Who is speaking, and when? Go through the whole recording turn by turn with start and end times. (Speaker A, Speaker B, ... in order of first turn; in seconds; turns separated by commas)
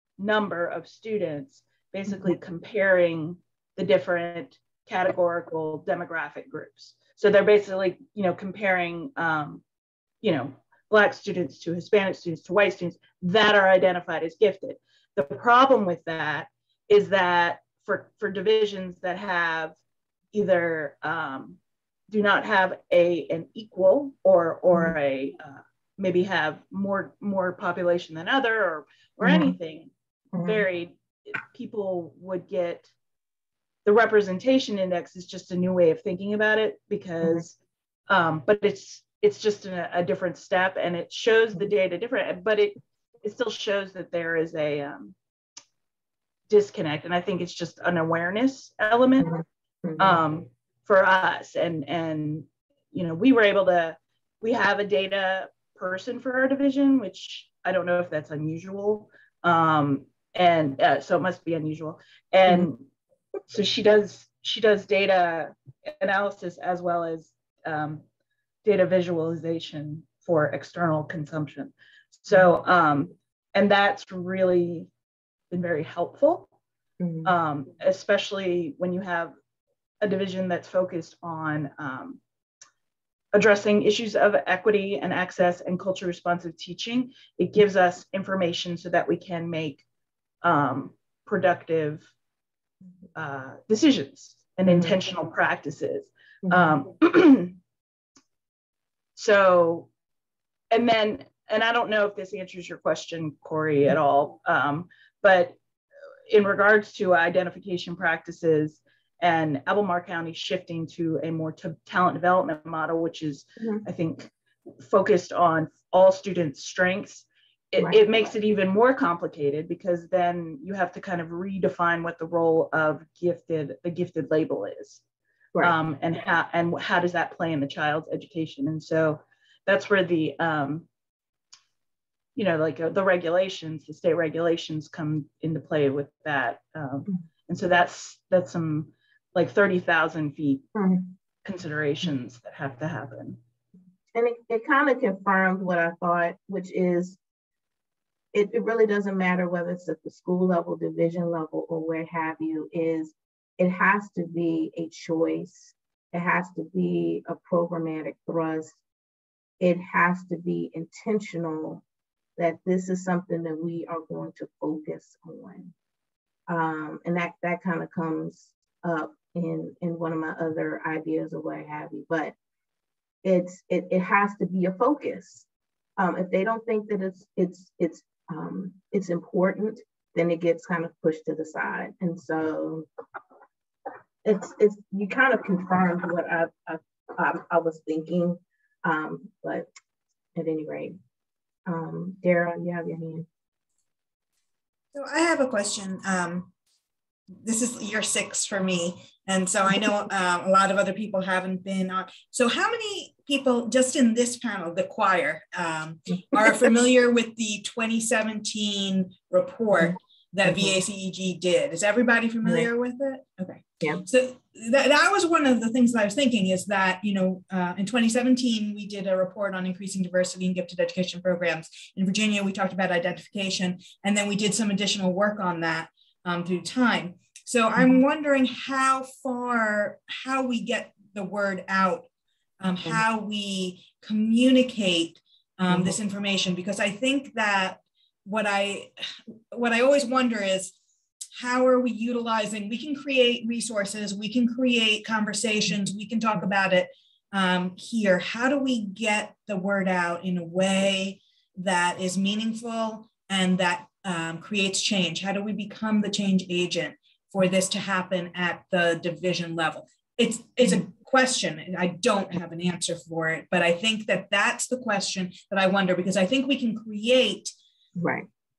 Speaker A: 0.2-9.6, Speaker A: 10.2-19.8, Speaker A: 20.3-21.6, Speaker A: 22.1-32.9, Speaker B: 29.2-29.6, Speaker B: 30.4-30.6, Speaker A: 33.8-37.5, Speaker A: 38.1-45.1, Speaker A: 46.5-49.4, Speaker B: 49.8-50.2, Speaker A: 50.0-62.9, Speaker A: 63.5-68.0, Speaker A: 68.6-74.9, Speaker A: 75.5-76.5, Speaker B: 77.0-77.3, Speaker A: 77.2-79.3, Speaker A: 80.0-82.2, Speaker A: 83.3-89.8, Speaker A: 90.4-92.1, Speaker A: 93.2-97.5, Speaker B: 94.7-94.9, Speaker A: 99.2-99.9, Speaker A: 100.7-105.5, Speaker A: 106.3-125.0, Speaker A: 125.6-130.8, Speaker A: 132.3-140.7, Speaker B: 140.7-141.0, Speaker A: 141.4-143.4, Speaker B: 144.1-147.2, Speaker B: 148.3-158.8, Speaker B: 159.6-161.8, Speaker B: 162.4-165.7, Speaker B: 166.5-172.3, Speaker B: 173.2-175.4, Speaker B: 176.0-182.8, Speaker B: 184.2-189.7, Speaker B: 190.3-190.9, Speaker B: 191.7-193.2, Speaker C: 194.9-196.5, Speaker C: 197.4-232.1, Speaker B: 210.4-210.7, Speaker C: 232.6-238.9, Speaker B: 235.7-236.0, Speaker C: 239.5-240.7, Speaker C: 241.3-267.5, Speaker B: 268.0-268.3